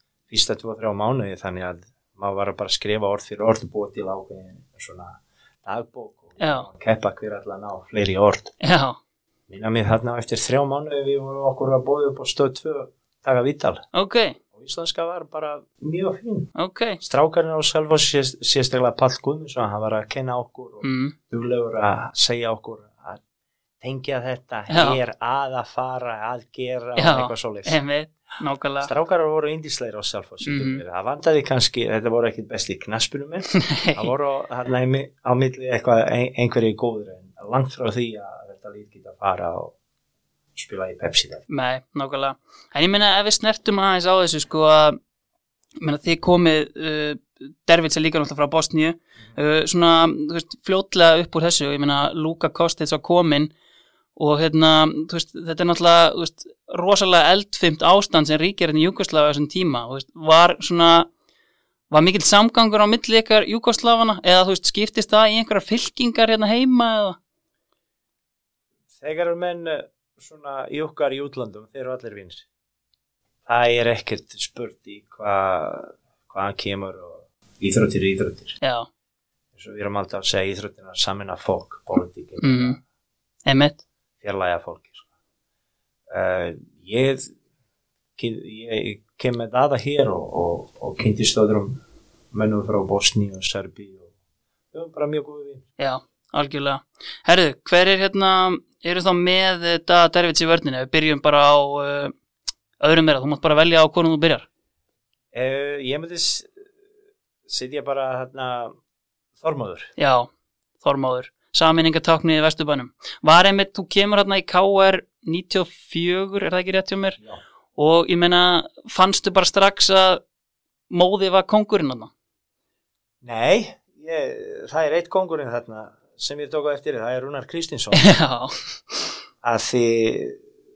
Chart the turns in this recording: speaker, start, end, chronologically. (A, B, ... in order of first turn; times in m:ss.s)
0:00.3-0:08.6 A
0:06.4-0:06.7 B
0:08.6-0:09.0 B
0:09.5-0:13.8 A
0:13.9-0:14.4 B
0:14.5-0:23.2 A
0:16.6-0:17.0 B
0:20.8-0:21.2 B
0:23.8-0:27.8 A
0:24.7-0:25.0 B
0:27.0-0:28.9 B
0:28.8-0:39.7 A
0:30.4-0:30.8 B
0:33.5-0:34.1 B
0:40.6-0:41.4 A
0:41.5-0:45.0 B
0:45.8-0:53.5 B
0:54.2-1:01.1 B
1:01.9-1:07.2 B
1:09.0-1:12.5 A
1:13.5-1:18.6 A
1:18.6-1:18.9 B
1:19.6-1:22.8 A
1:22.4-1:22.8 B
1:23.5-1:23.8 B
1:24.2-1:25.1 A
1:26.1-1:27.3 A
1:28.2-1:31.8 A
1:32.3-1:34.1 A
1:34.7-1:35.6 A
1:35.8-1:42.1 B
1:42.8-1:44.5 B
1:45.3-1:46.6 A
1:47.5-1:48.8 A
1:49.4-1:49.9 A
1:50.0-1:50.3 B
1:50.8-1:57.2 B
1:57.8-2:00.2 B
2:00.9-2:02.1 B
2:03.2-2:08.1 A
2:07.9-2:09.1 B
2:09.4-2:10.4 A